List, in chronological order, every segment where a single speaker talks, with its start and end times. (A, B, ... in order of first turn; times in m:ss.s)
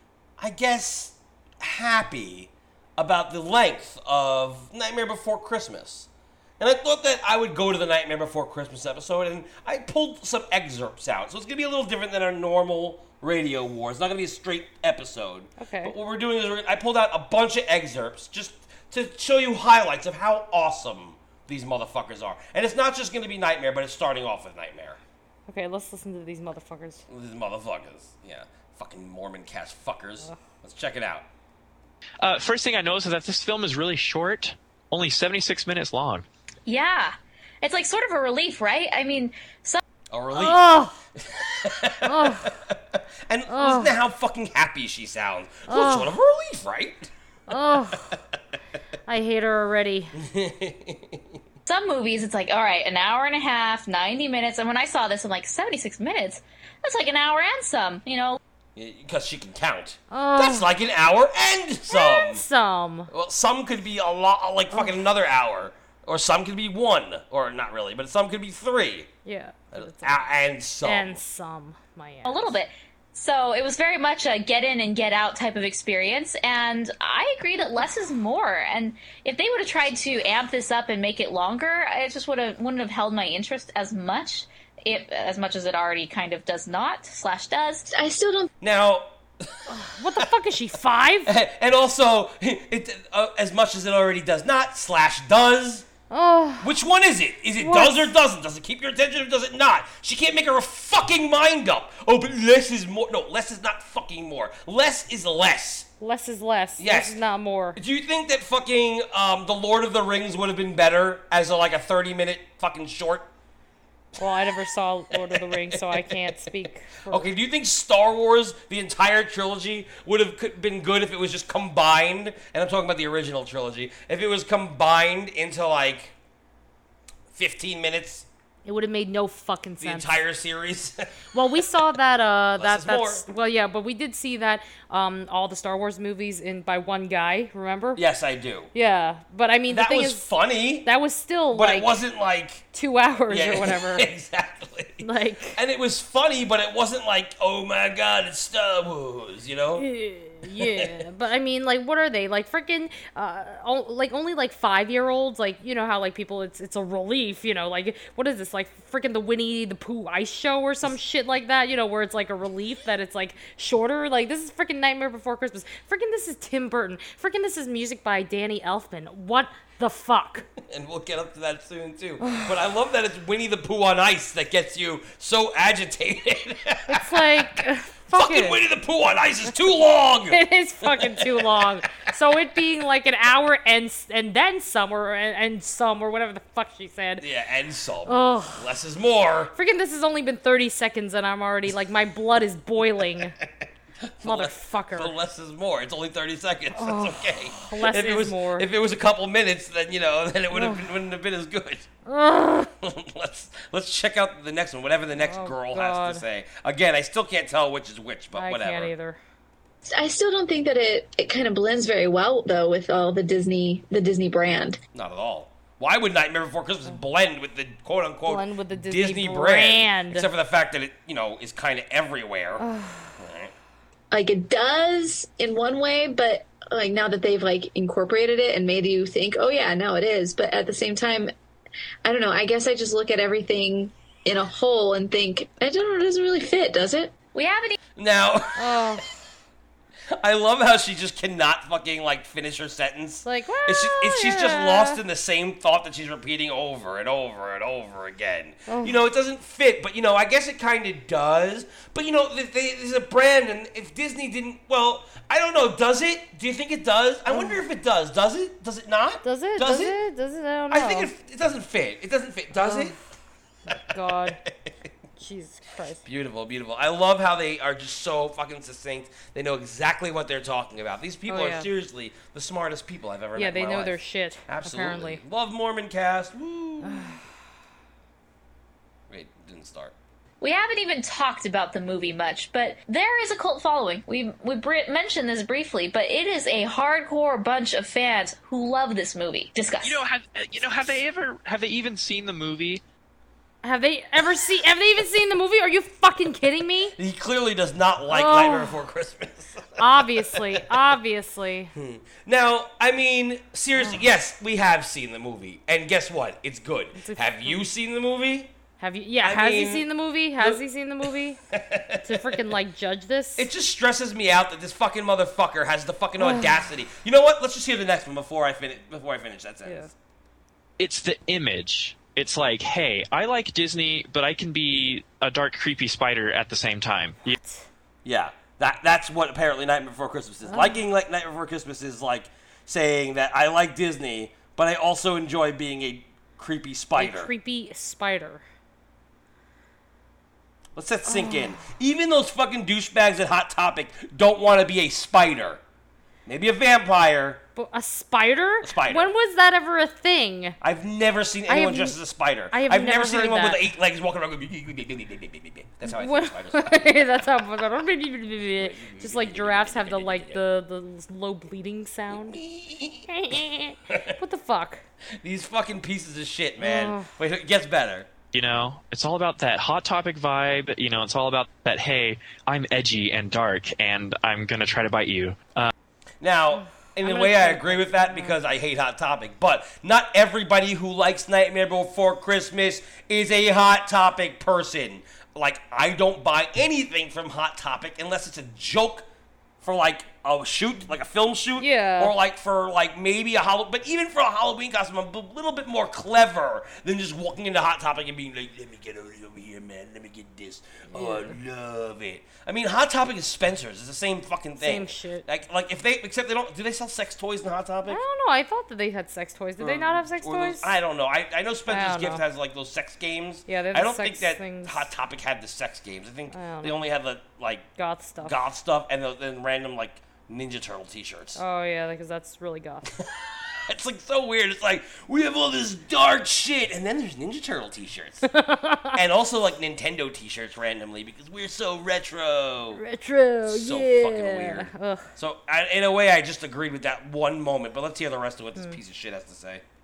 0:00.4-0:25.0 A
0:15.6-0:15.9 B
0:25.5-0:27.0 B
0:27.1-0:31.3 A
0:32.2-0:36.2 C
0:36.6-0:39.8 D
0:40.1-0:47.1 A
0:40.3-0:41.0 B
0:42.0-0:42.5 B
0:43.5-0:43.9 B
0:45.7-0:46.1 B
0:47.5-0:48.2 B
0:49.1-0:50.1 B
0:50.2-0:51.4 A
0:51.6-0:58.4 D
0:58.8-1:02.4 A
1:00.1-1:00.7 B
1:01.9-1:03.1 B
1:03.1-1:09.1 A
1:04.7-1:05.0 B
1:09.2-1:10.3 B
1:09.7-1:11.2 A
1:10.8-1:12.6 B
1:12.2-1:27.9 D
1:27.9-1:28.5 E
1:28.6-1:29.6 A
1:29.7-1:31.3 B
1:31.2-1:35.8 A
1:36.1-1:36.7 B
1:36.6-1:45.9 A
1:37.6-1:38.1 B
1:46.0-1:47.8 B
1:46.8-1:47.2 A
1:47.8-1:53.3 A
1:54.2-1:57.3 B
1:55.1-1:56.3 A
1:57.1-2:06.1 A
2:07.3-2:08.3 A
2:08.6-2:10.1 B
2:09.8-2:11.6 A
2:11.3-2:18.0 B
2:12.6-2:13.2 A
2:17.9-2:18.7 A
2:18.7-2:20.3 B
2:19.7-2:20.9 A
2:20.8-2:21.9 B
2:21.5-2:22.6 A
2:22.7-2:24.1 B
2:23.3-2:29.8 A
2:25.0-2:25.6 B
2:29.8-2:50.4 B
2:30.5-2:30.9 A
2:50.6-3:01.6 A
2:52.2-2:52.5 B
2:56.9-2:58.6 B
3:00.3-3:07.2 B
3:07.2-3:09.5 A
3:08.0-3:08.7 B
3:09.5-3:13.3 B
3:14.0-3:21.9 A
3:14.2-3:15.1 B
3:16.7-3:18.7 B
3:20.5-3:20.9 B
3:22.0-3:22.7 B
3:22.8-3:28.9 A
3:25.2-3:26.2 B
3:28.3-3:29.2 B
3:29.9-3:34.8 E
3:34.9-3:42.6 A
3:38.2-3:40.3 B
3:42.6-3:43.2 B
3:43.2-3:43.5 A
3:44.1-3:51.3 E
3:52.0-3:57.1 E
3:57.3-3:57.7 D
3:58.0-3:59.1 A
3:58.6-3:59.0 B
4:00.2-4:20.0 A
4:03.2-4:05.0 B
4:08.7-4:09.0 B
4:17.3-4:17.6 B
4:19.2-4:21.1 B
4:20.7-4:22.9 A
4:22.5-4:23.0 B
4:23.6-4:24.4 B
4:24.1-4:24.9 A
4:25.2-4:26.0 B
4:26.0-4:37.2 A
4:31.3-4:31.7 B
4:33.4-4:35.2 B
4:36.8-4:37.2 B
4:39.1-4:39.9 A
4:40.4-4:50.0 D
4:49.8-4:52.8 C
4:53.6-4:56.9 B
4:57.0-5:00.6 A
4:58.1-4:58.8 B
4:59.8-5:01.7 B
5:01.7-5:08.5 A
5:03.8-5:04.0 B
5:07.0-5:07.6 B
5:08.8-5:11.4 B
5:09.2-5:09.9 A
5:11.5-5:12.4 A
5:12.0-5:13.5 B
5:13.4-5:19.9 A
5:16.2-5:16.6 B
5:19.6-5:19.9 B
5:20.8-5:27.4 C
5:27.3-5:27.7 B
5:28.0-5:37.3 A
5:30.4-5:30.8 B
5:37.0-5:38.4 B
5:40.8-5:45.6 A
5:41.0-5:41.7 B
5:46.2-5:47.4 A
5:47.6-5:50.6 B
5:48.6-5:49.1 A
5:50.6-5:57.2 A
5:51.5-5:52.0 B
5:52.5-5:53.7 B
5:55.8-6:02.4 B
5:58.6-6:00.4 A
6:02.1-6:03.1 A
6:03.1-6:04.8 B
6:03.9-6:04.2 A
6:05.2-6:08.1 A
6:06.6-6:07.1 B
6:08.3-6:15.7 C
6:16.2-6:29.0 A
6:16.5-6:18.4 B
6:29.6-6:48.0 A
6:31.6-6:32.1 B
6:40.9-6:41.4 B
6:44.6-6:45.2 B
6:47.8-6:50.7 B
6:49.6-6:57.7 A
6:51.7-6:52.2 B
6:53.5-6:54.9 B
6:56.3-6:56.8 B
6:57.8-6:58.4 B
6:58.2-7:01.4 A
7:01.4-7:02.9 B
7:03.0-7:08.3 A
7:08.3-7:09.0 B
7:08.9-7:12.8 A
7:12.7-7:15.1 B
7:13.4-7:19.6 A